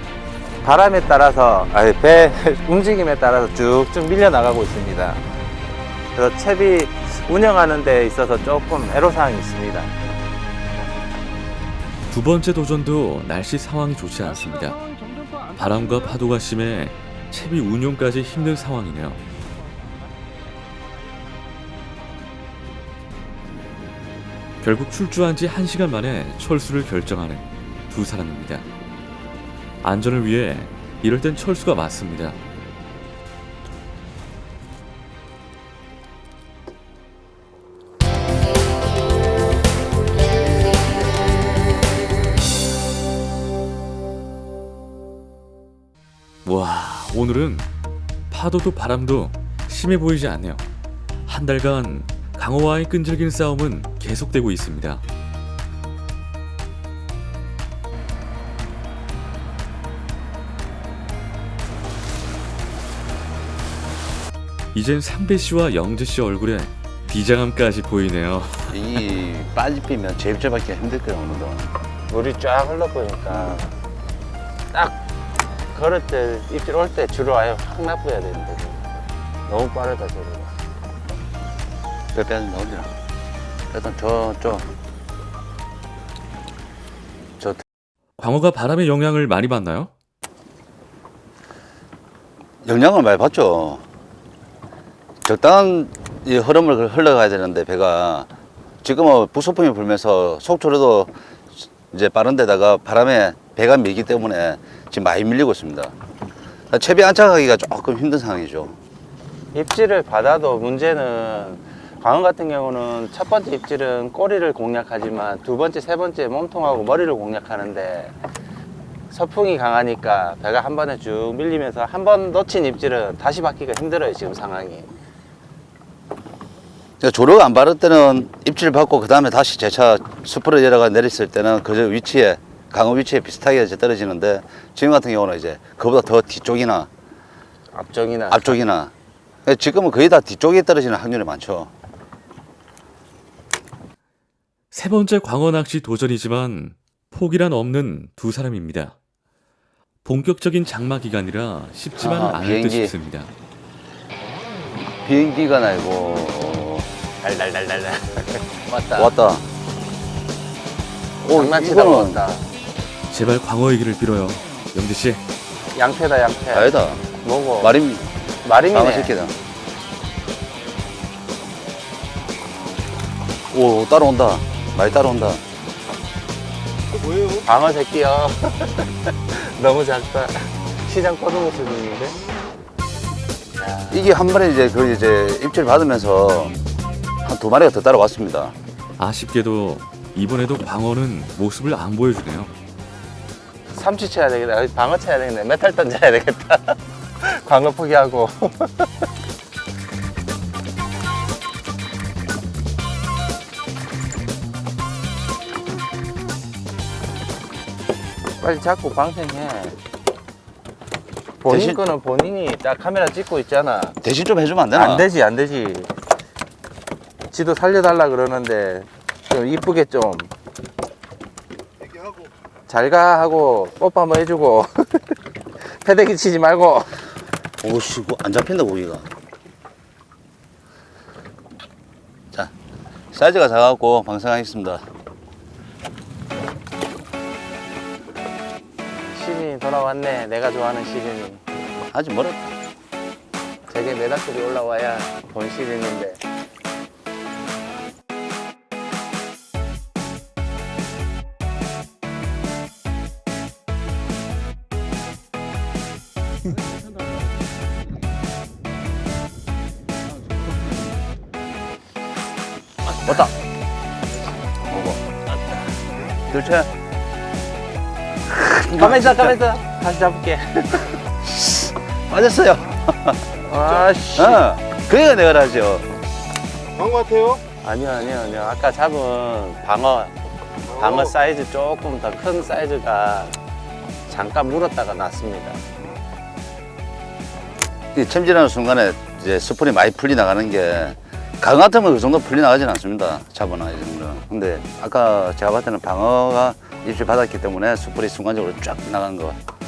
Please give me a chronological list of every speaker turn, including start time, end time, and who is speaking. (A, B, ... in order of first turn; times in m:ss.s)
0:00.6-0:05.2 A
0:06.2-0:09.9 A
0:12.1-0:14.8 B
0:15.6-0:19.2 B
0:24.6-0:28.6 B
0:29.8-0:32.4 B
0:46.4-0:47.7 B
0:48.3-0:50.6 B
0:51.3-0:55.0 B
1:04.7-1:09.0 B
1:08.7-1:11.7 C
1:12.1-1:13.7 A
1:13.3-1:13.6 C
1:15.7-1:18.8 A
1:19.5-1:20.5 A
1:22.1-1:22.9 C
1:23.7-1:24.7 C
1:28.2-1:29.9 B
1:32.6-1:33.8 C
1:35.2-1:38.3 C
1:38.8-1:45.9 C
1:46.7-1:48.8 C
1:49.5-1:58.1 A
1:59.1-2:04.9 A
2:07.0-2:16.9 C
2:17.7-2:18.6 A
2:18.3-2:18.9 C
2:19.4-2:21.7 C
2:24.7-2:29.0 B
2:30.0-2:33.3 B
2:32.0-2:32.9 C
2:35.0-2:36.9 C
2:37.2-2:39.1 A
2:38.9-2:39.4 C
2:41.2-2:42.2 C
2:41.3-2:42.4 A
2:43.1-2:45.2 B
2:45.7-2:47.7 A
2:46.5-2:47.0 C
2:47.6-2:48.0 C
2:48.4-2:49.1 A
2:48.7-2:49.3 C
2:53.5-2:55.4 C
2:56.9-2:57.4 D
2:57.4-3:02.2 A
3:03.6-3:04.1 A
3:03.9-3:06.6 C
3:07.2-3:08.5 C
3:09.0-3:12.5 B
3:13.7-3:18.9 A
3:28.4-3:29.8 A
3:31.4-3:34.0 A
3:31.5-3:31.8 C
3:34.0-3:35.1 C
3:34.7-3:35.9 A
3:37.3-3:40.3 A
3:41.8-3:42.3 D
3:42.7-3:46.9 A
3:47.6-3:49.1 C
3:53.1-3:54.8 C
3:58.9-4:01.4 A
4:01.9-4:02.5 C
4:03.7-4:06.2 A
4:22.9-4:23.3 A
4:23.0-4:23.3 C
4:24.6-4:25.0 C
4:26.3-4:26.7 C
4:28.3-4:29.3 C
4:28.7-4:31.0 A
4:31.2-4:33.2 C
4:33.4-4:34.4 A
4:33.6-4:33.9 D
4:34.1-4:35.9 C
4:36.7-4:37.4 D
4:37.6-4:40.1 A
4:40.7-4:41.1 D
4:40.7-4:43.4 A
4:44.1-4:45.6 A
4:47.9-4:59.4 C